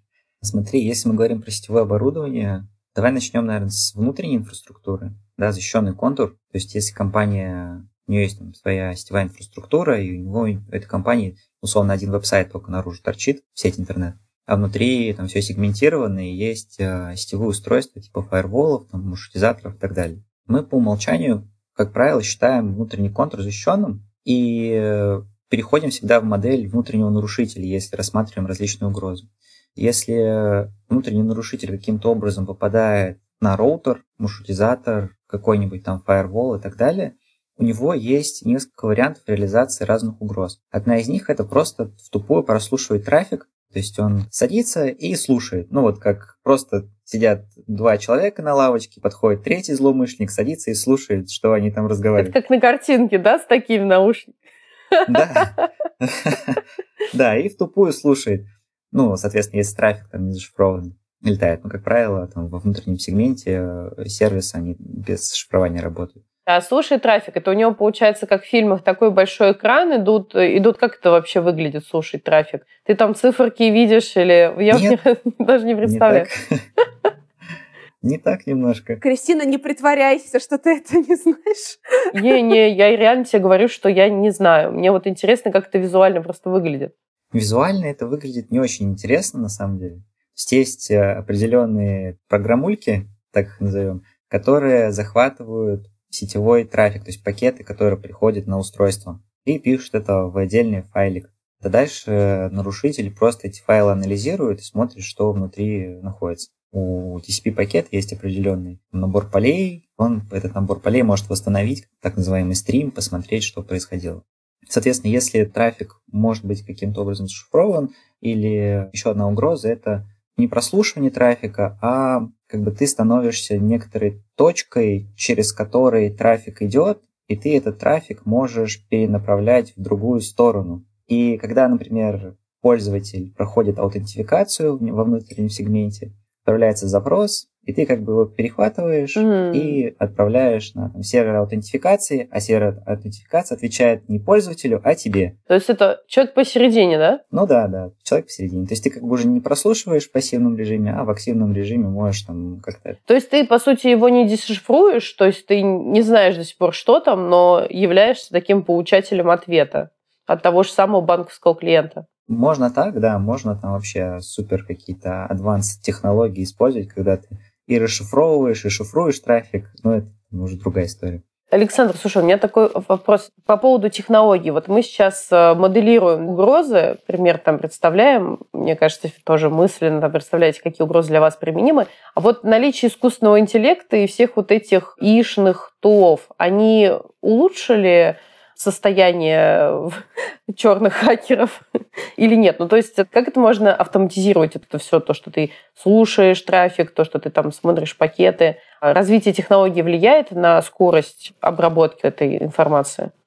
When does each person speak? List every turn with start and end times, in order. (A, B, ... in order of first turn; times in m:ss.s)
0:00.4-0:52.3 A
0:52.2-0:54.3 B
0:54.9-0:55.7 B
0:55.0-0:56.6 A
0:57.1-1:06.2 A
1:06.5-1:16.3 B
1:14.7-1:15.0 A
1:15.8-1:16.6 A
1:18.0-1:19.0 A
1:19.0-1:22.4 C
1:22.1-1:26.9 B
1:27.3-2:25.4 A
2:19.2-2:19.8 B
2:25.5-2:27.2 B
2:27.3-2:33.0 A
2:33.1-2:42.0 B
2:42.3-2:51.2 A
2:51.5-3:11.6 B
3:12.2-3:23.1 B